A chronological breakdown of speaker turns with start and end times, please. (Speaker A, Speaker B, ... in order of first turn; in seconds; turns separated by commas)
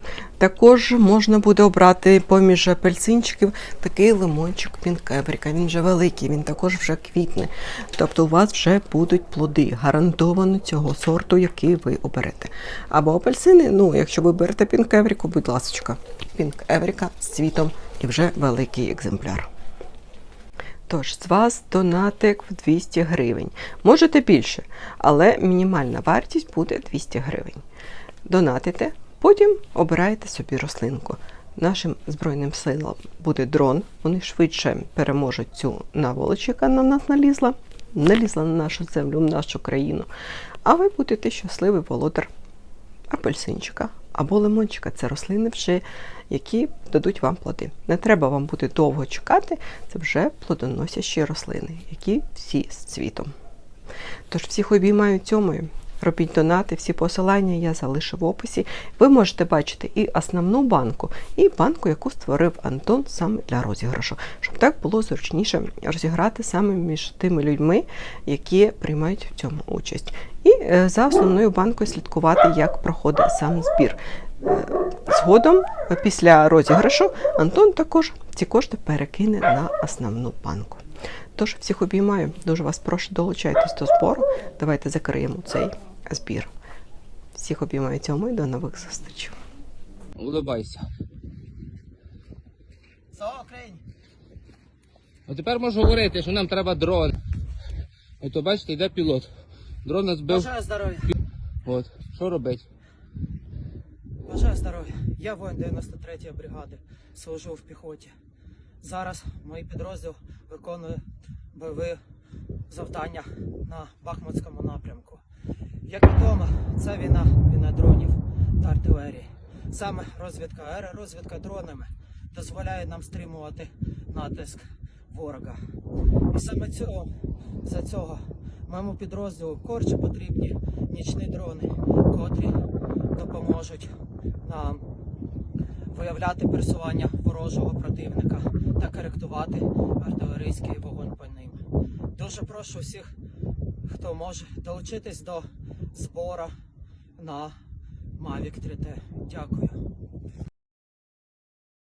Speaker A: 0.4-19.5, Speaker A: 20.9-27.6, Speaker A: 28.2-40.1, Speaker A: 40.6-42.3, Speaker A: 43.1-53.3, Speaker A: 54.3-80.8, Speaker A: 81.3-86.5, Speaker A: 87.3-89.4, Speaker B: 90.2-90.8, Speaker C: 93.1-93.8, Speaker B: 95.3-97.1, Speaker B: 98.2-99.3, Speaker B: 99.8-100.5, Speaker C: 100.3-101.1, Speaker B: 101.6-102.6, Speaker C: 104.3-108.1, Speaker C: 108.8-112.0, Speaker C: 112.7-115.2, Speaker C: 115.8-125.6, Speaker C: 126.3-127.1, Speaker C: 127.6-132.6, Speaker C: 133.1-133.9, Speaker C: 134.4-134.8, Speaker C: 135.9-143.1, Speaker C: 143.9-146.5, Speaker C: 147.2-147.6, Speaker C: 148.2-149.8